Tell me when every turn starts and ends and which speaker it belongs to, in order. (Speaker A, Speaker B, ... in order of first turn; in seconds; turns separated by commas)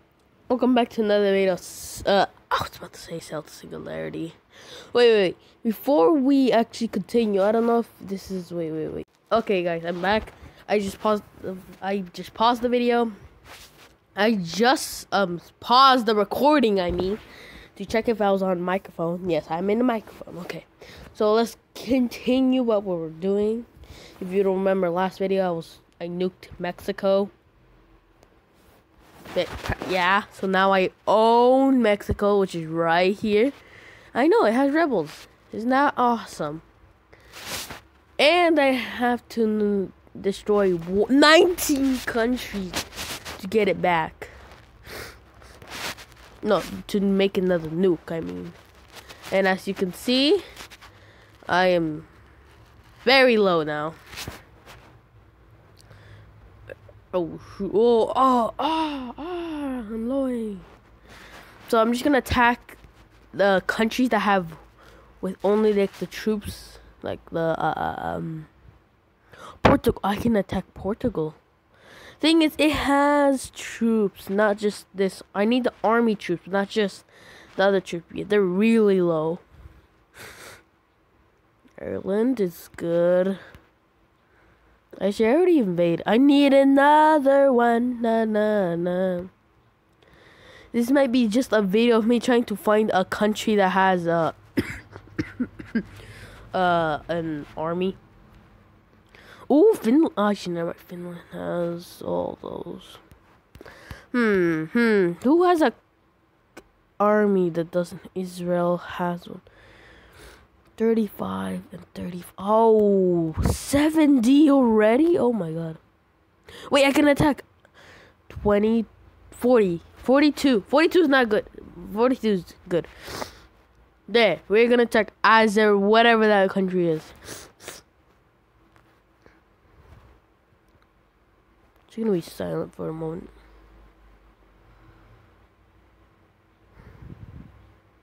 Speaker A: 0.5-4.4, Speaker A: 4.9-13.1, Speaker A: 14.2-17.2, Speaker A: 17.8-23.7, Speaker A: 24.2-27.3, Speaker A: 29.3-33.5, Speaker A: 34.1-36.6, Speaker A: 38.2-42.8, Speaker A: 43.4-44.3, Speaker A: 46.4-48.5, Speaker A: 49.3-50.4, Speaker A: 51.5-52.1, Speaker A: 53.0-54.0, Speaker A: 57.1-60.7, Speaker A: 61.6-62.8, Speaker A: 63.3-64.6, Speaker A: 65.2-68.5, Speaker A: 69.6-71.4, Speaker A: 72.2-79.4, Speaker A: 81.8-83.4, Speaker A: 85.0-89.3, Speaker A: 90.7-95.8, Speaker A: 96.5-98.0, Speaker A: 99.5-103.0, Speaker A: 104.1-105.8, Speaker A: 107.0-109.4, Speaker A: 110.8-115.8, Speaker A: 116.7-117.5, Speaker A: 118.3-123.3, Speaker A: 124.1-127.5, Speaker A: 131.9-133.3